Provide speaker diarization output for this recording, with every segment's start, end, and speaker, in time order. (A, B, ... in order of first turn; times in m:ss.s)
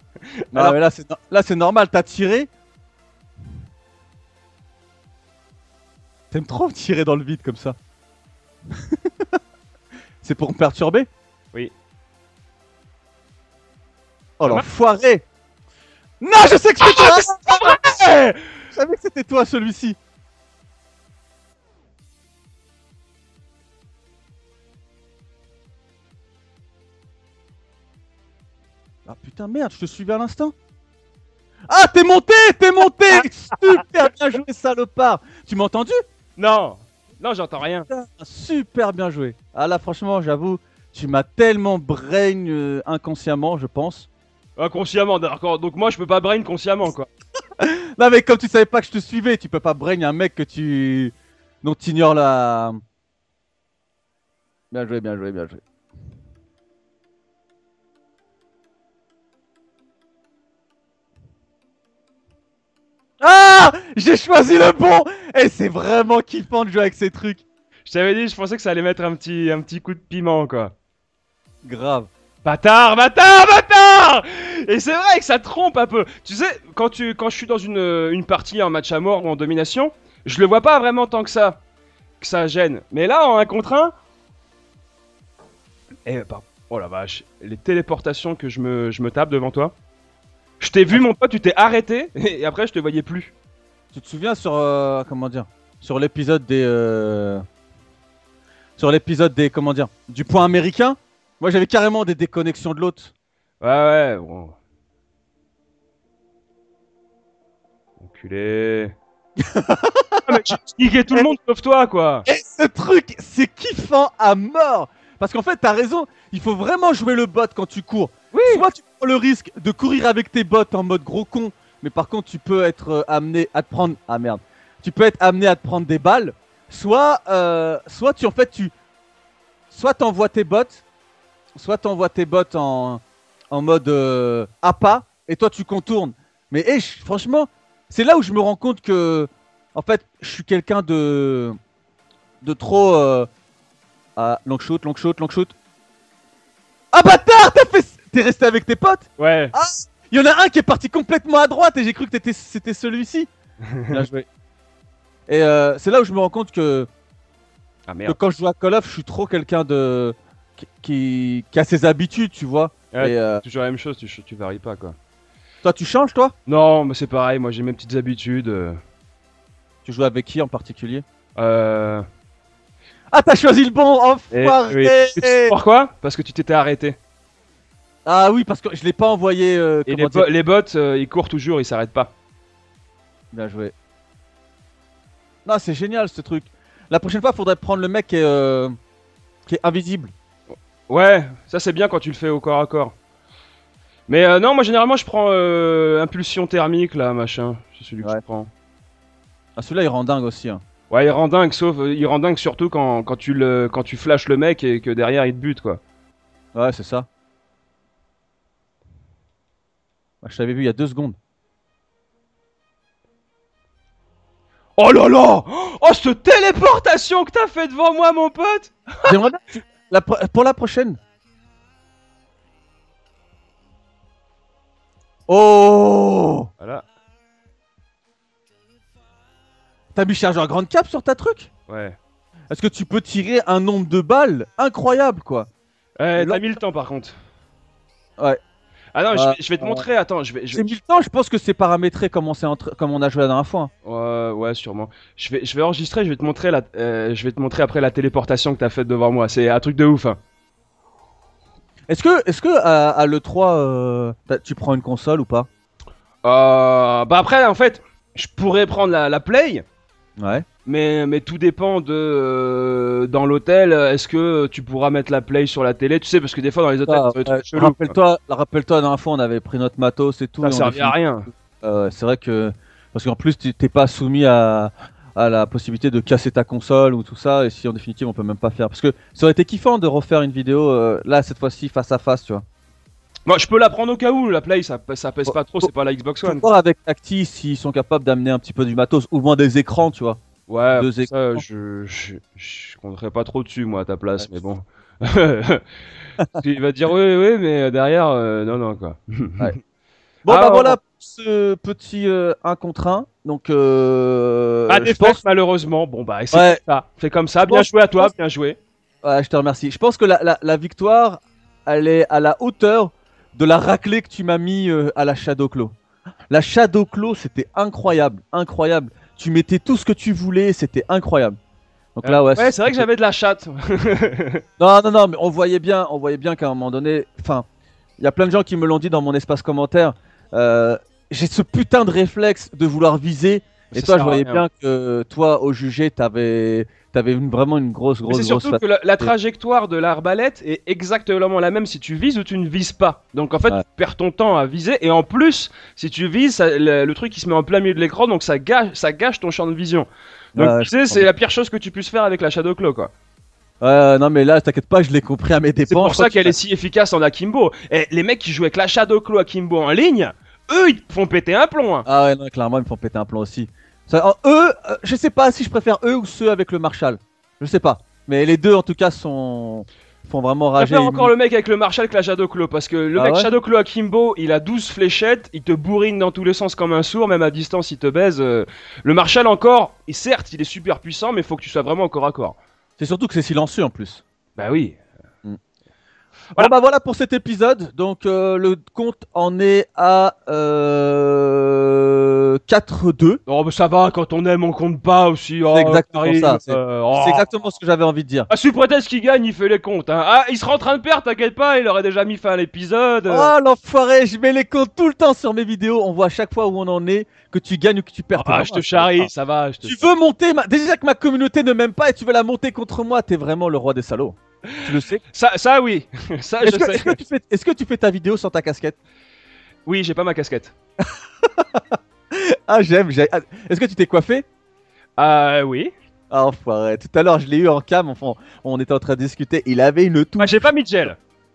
0:00.5-0:00.8 A
0:00.5-0:02.5 B
0:06.3-0:07.8 B
0:10.2-0:11.1 B
0:14.4-0:15.2 B
0:16.2-0:17.8 B
0:16.8-0:18.4 A
0:18.7-0:20.0 B
0:29.0-0:30.5 B
0:31.7-0:36.0 B
0:36.4-0:37.9 A
0:37.9-0:44.1 B
0:44.6-0:47.1 A
0:47.6-0:52.8 B
0:54.7-0:55.6 B
1:03.2-1:07.4 B
1:07.8-1:10.7 A
1:11.6-1:12.1 B
1:12.4-1:21.6 A
1:22.2-1:23.9 A
1:26.0-1:29.7 A
1:30.6-1:33.3 A
1:33.9-1:37.4 B
1:38.8-1:43.1 B
1:43.6-1:44.5 A
1:48.0-1:49.0 A
1:49.4-1:50.5 B
1:50.2-1:52.2 A
1:52.3-2:08.7 B
1:58.3-1:58.6 A
2:09.7-2:10.8 B
2:11.6-2:21.6 B
2:22.4-2:23.3 B
2:24.2-2:25.5 B
2:26.9-2:33.3 B
2:29.2-2:29.5 A
2:33.7-2:34.0 A
2:33.9-2:34.2 B
2:35.3-2:36.9 B
2:37.9-2:38.2 A
2:38.1-2:43.4 B
2:42.9-2:45.0 A
2:45.6-2:46.3 B
2:46.5-2:48.8 A
2:49.8-2:51.0 B
2:51.4-2:52.0 A
2:53.1-2:55.5 B
2:54.3-2:57.0 A
2:58.0-3:00.3 B
2:59.8-3:02.1 A
3:03.3-3:03.7 B
3:05.4-3:08.7 B
3:09.4-3:10.1 B
3:10.5-3:12.9 A
3:14.1-3:18.5 A
3:19.6-3:20.6 B
3:20.9-3:25.8 A
3:26.5-3:27.1 B
3:30.2-3:31.2 B
3:34.8-3:39.2 A
3:39.0-3:41.0 B
3:45.3-3:46.5 B
3:46.6-3:46.8 A
3:49.9-3:51.5 B
3:51.7-3:52.0 A
3:52.5-3:55.5 B
3:56.0-3:57.2 A
3:56.2-3:56.4 B
3:58.9-4:00.6 A
3:59.1-3:59.9 B
4:00.5-4:03.7 B
4:03.8-4:10.2 A
4:11.9-4:15.5 B
4:16.2-4:19.6 A
4:20.2-4:20.4 B
4:20.6-4:27.9 A
4:26.9-4:31.0 B
4:30.4-4:31.3 A
4:31.6-4:42.4 B
4:43.3-4:46.4 A
4:45.3-4:45.7 B
4:46.2-4:50.2 B
4:50.5-4:55.6 A
4:50.8-4:51.4 B
4:56.3-4:59.6 A
5:00.2-5:05.2 B
5:00.3-5:00.8 A
5:04.7-5:08.6 A
5:06.3-5:06.6 B
5:07.4-5:08.1 B
5:09.0-5:15.7 B
5:16.3-5:21.4 B
5:22.0-5:22.8 B
5:22.0-5:24.4 A
5:24.6-5:27.4 B
5:28.0-5:39.1 B
5:33.7-5:34.4 A
5:38.1-5:52.9 A
5:50.4-5:51.1 B
5:53.6-5:56.4 B
5:55.7-6:01.8 A
6:01.9-6:11.1 B
6:10.6-6:22.4 A
6:13.0-6:13.3 B
6:22.8-6:24.0 B
6:24.4-6:24.8 A
6:26.4-6:33.2 B
6:33.3-6:37.3 A
6:35.5-6:38.3 B
6:38.3-6:43.3 A
6:43.1-6:49.1 B
6:48.1-6:49.9 A
6:49.6-6:55.0 B
6:54.5-6:57.0 A
6:56.4-6:58.8 B
6:59.6-7:00.5 A
7:01.2-7:04.2 B
7:05.0-7:05.7 A
7:06.1-7:10.5 B
7:10.2-7:11.0 A